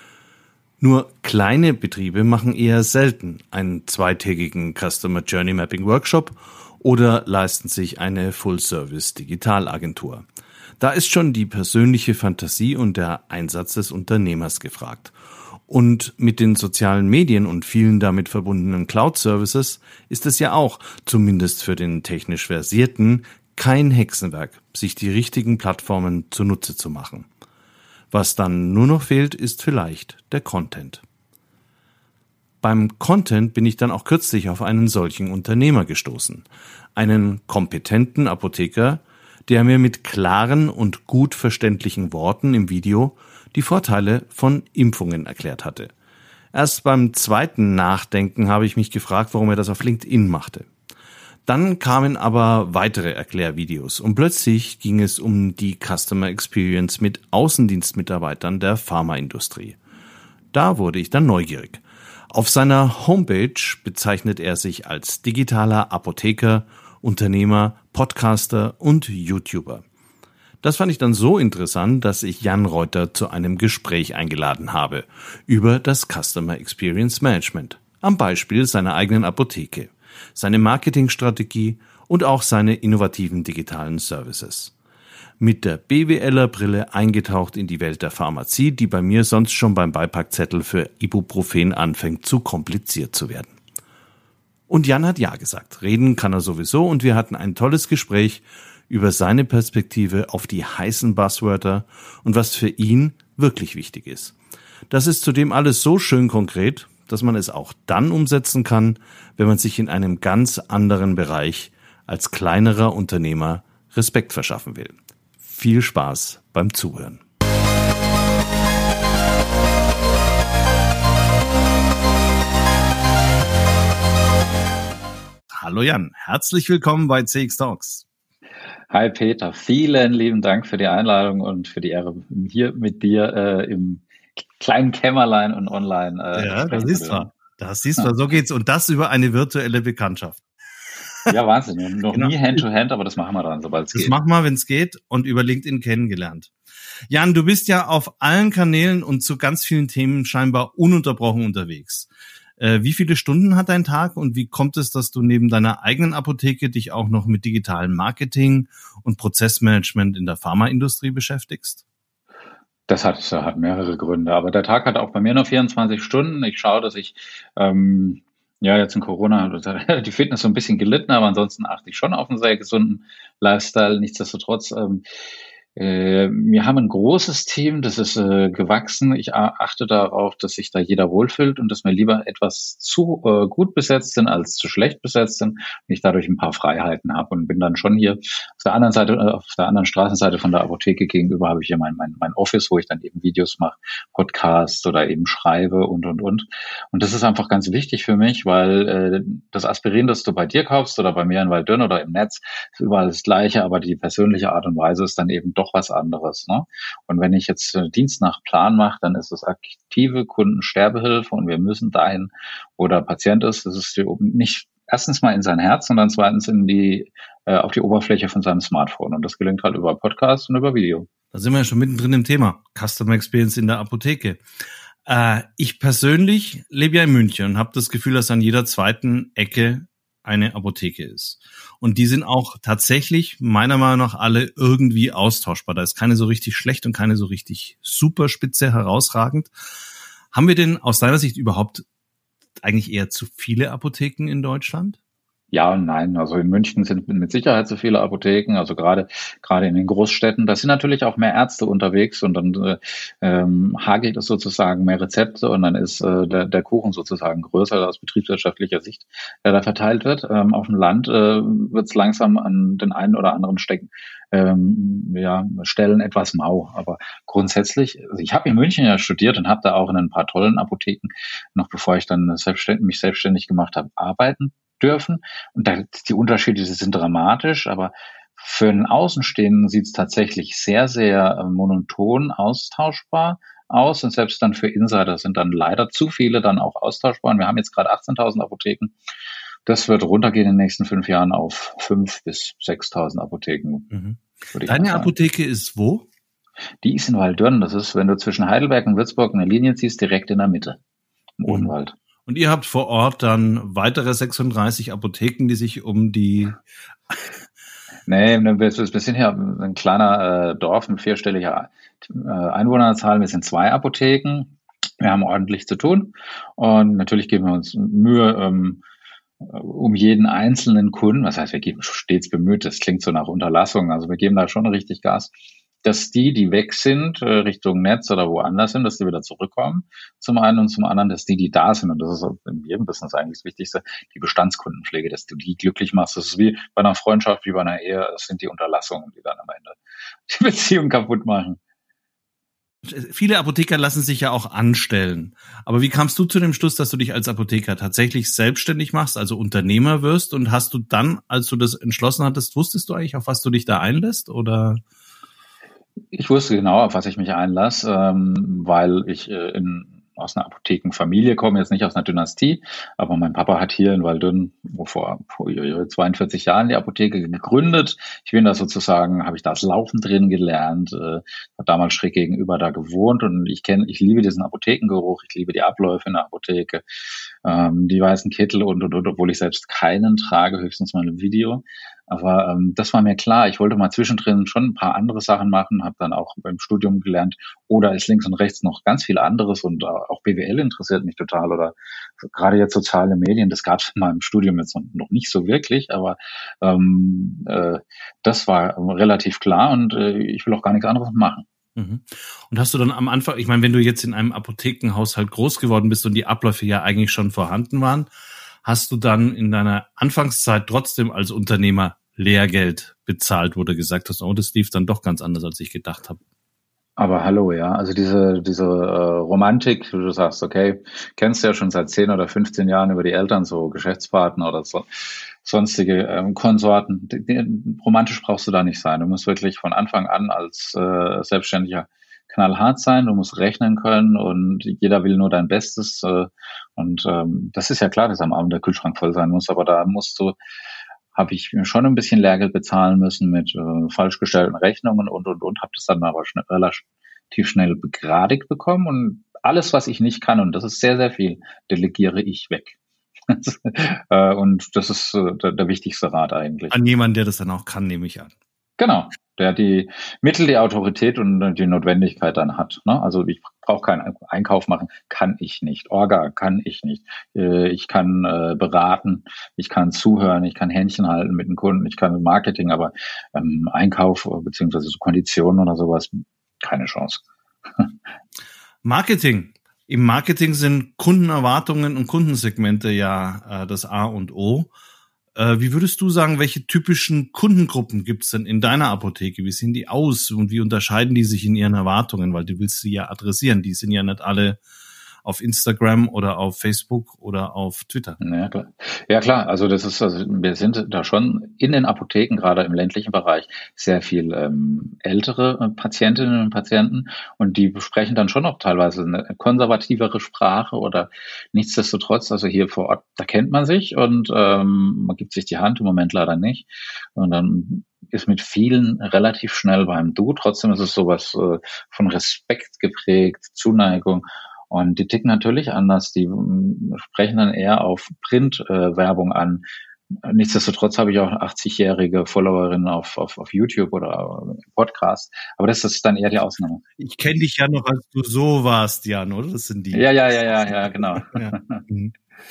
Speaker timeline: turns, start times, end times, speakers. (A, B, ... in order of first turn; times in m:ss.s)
0:00.8-0:10.2 A
0:10.8-0:15.1 A
0:15.7-0:27.3 A
0:28.1-0:31.0 A
0:32.6-0:45.9 A
0:46.5-0:50.7 A
0:51.4-0:59.8 A
1:00.5-1:09.8 A
1:10.6-1:24.7 A
1:25.4-1:33.5 A
1:34.7-1:44.4 A
1:44.9-1:57.2 A
2:05.5-2:08.0 A
2:08.9-2:17.3 B
2:16.3-2:20.4 A
2:21.3-2:24.2 B
2:23.9-2:26.5 A
2:27.1-2:41.8 A
2:42.9-2:55.0 B
2:55.7-3:41.1 B
3:41.3-3:44.4 A
3:45.0-3:59.5 A
4:00.3-4:01.8 A
4:02.6-4:05.0 A
4:05.5-4:49.0 B
4:49.6-4:53.9 B
4:53.9-4:56.1 A
4:54.5-4:55.1 B
4:56.8-5:00.8 B
5:01.4-5:01.9 B
5:01.5-5:01.7 A
5:02.2-5:06.6 A
5:08.0-5:18.8 B
5:19.4-5:25.3 B
5:25.8-5:41.6 B
5:42.8-5:54.8 A
5:56.1-6:16.8 B
6:17.4-6:41.4 B
6:41.8-6:48.1 A
6:48.6-6:56.2 A
6:57.0-7:20.4 B
7:21.1-7:32.8 B
7:33.3-7:36.8 B
7:36.7-7:38.3 A
7:38.8-7:57.2 B
7:58.8-8:04.7 A
8:05.4-8:14.6 A
8:15.2-8:18.2 A
8:18.2-8:56.8 B
8:57.0-9:02.1 A
8:59.9-9:01.8 B